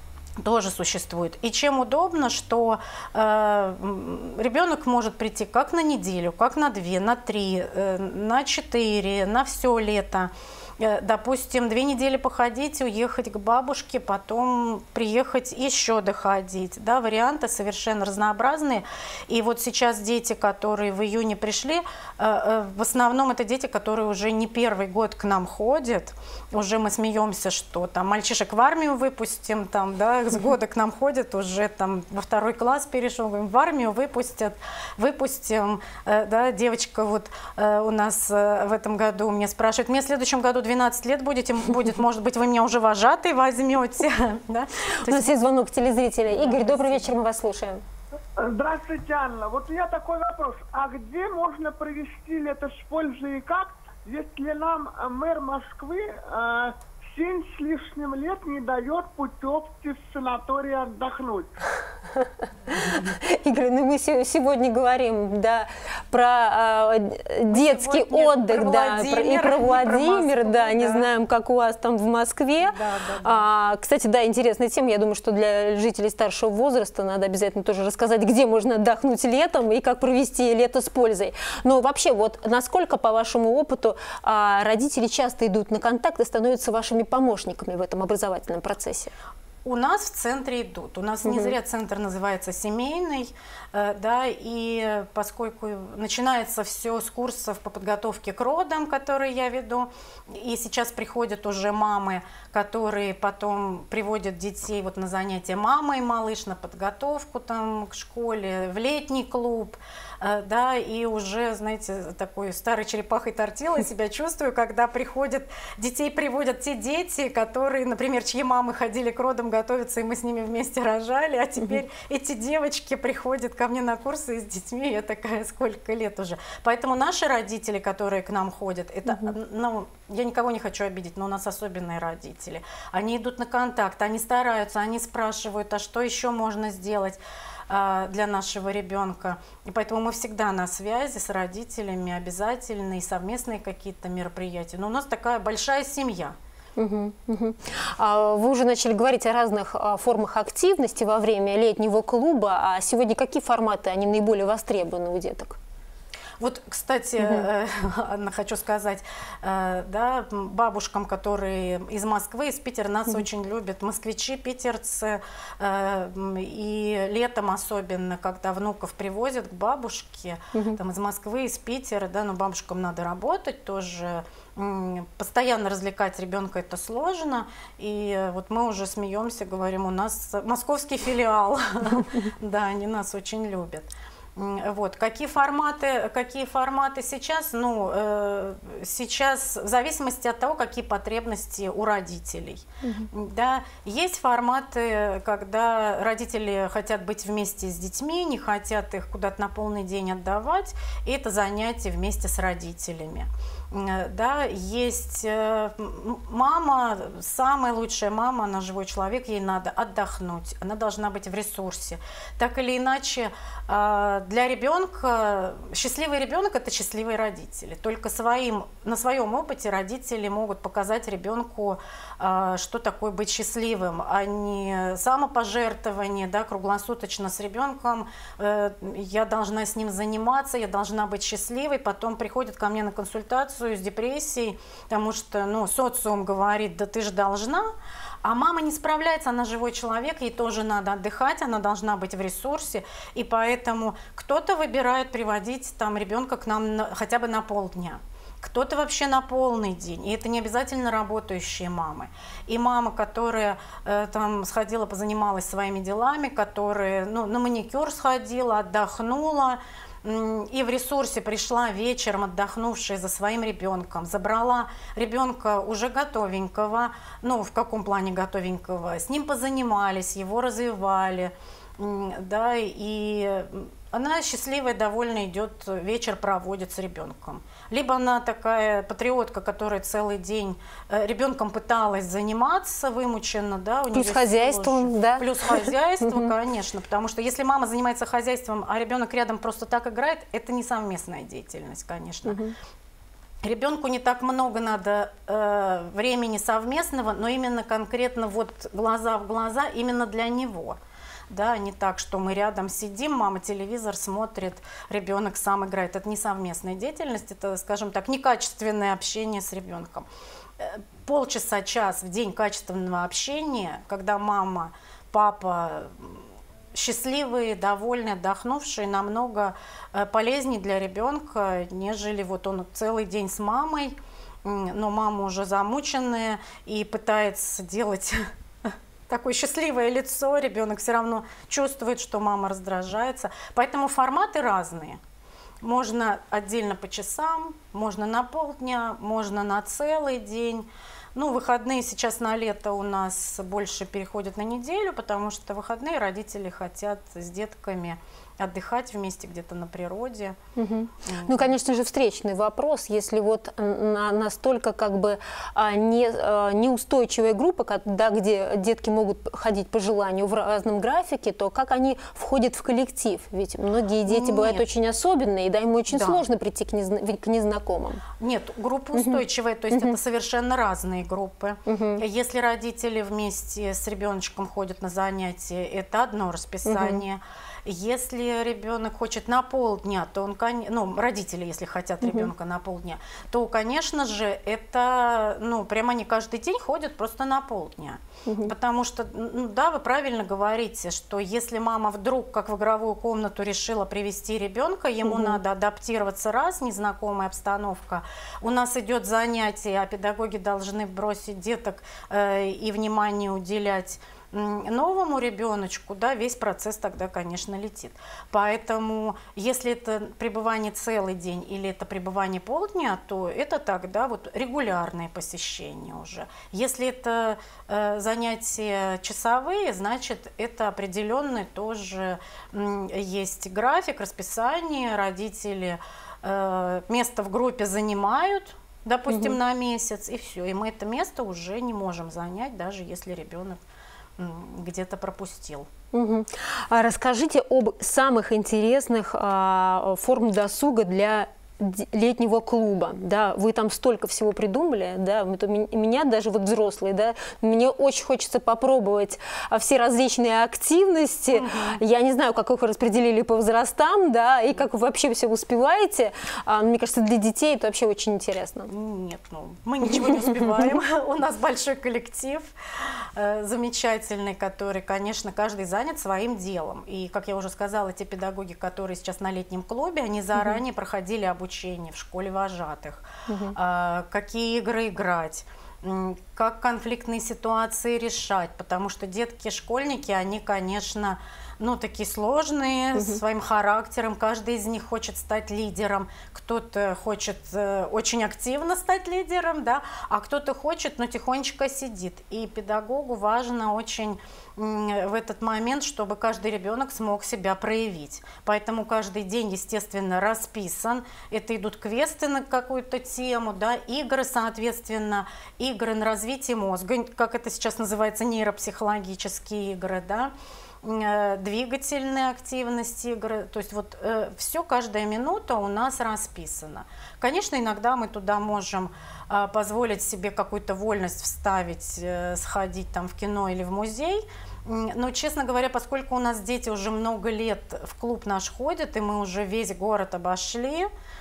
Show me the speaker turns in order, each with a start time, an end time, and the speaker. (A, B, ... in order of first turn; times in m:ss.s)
0:00.4-0:45.3 A
0:45.0-0:47.8 B
0:46.3-0:47.1 A
0:48.4-1:01.5 C
1:02.2-1:29.1 B
1:07.5-1:11.1 A
1:12.6-1:13.5 A
1:29.6-2:26.4 A
1:31.2-1:31.5 B
2:26.8-2:35.6 B
2:36.4-3:57.7 A
2:50.5-2:50.8 B
3:12.8-3:13.1 B
3:58.2-4:52.4 A
4:43.9-4:46.3 B
4:52.3-4:52.6 B
4:53.4-5:00.8 A
5:01.3-5:35.0 A
5:35.6-5:50.4 A
5:50.6-6:08.0 B
5:51.0-5:51.5 A
6:04.1-6:04.6 A
6:05.9-6:06.2 A
6:08.2-7:13.6 A
6:08.9-6:10.0 B
6:11.7-6:12.0 B
6:16.7-6:17.0 B
6:22.0-6:22.3 B
6:28.2-6:28.5 B
6:35.1-6:35.4 B
7:09.1-7:09.4 B
7:14.2-7:15.7 A
7:15.9-7:38.7 B
7:31.3-7:31.8 A
7:38.7-8:30.3 A
7:53.3-7:53.6 B
8:02.9-8:03.2 B
8:30.8-8:50.9 A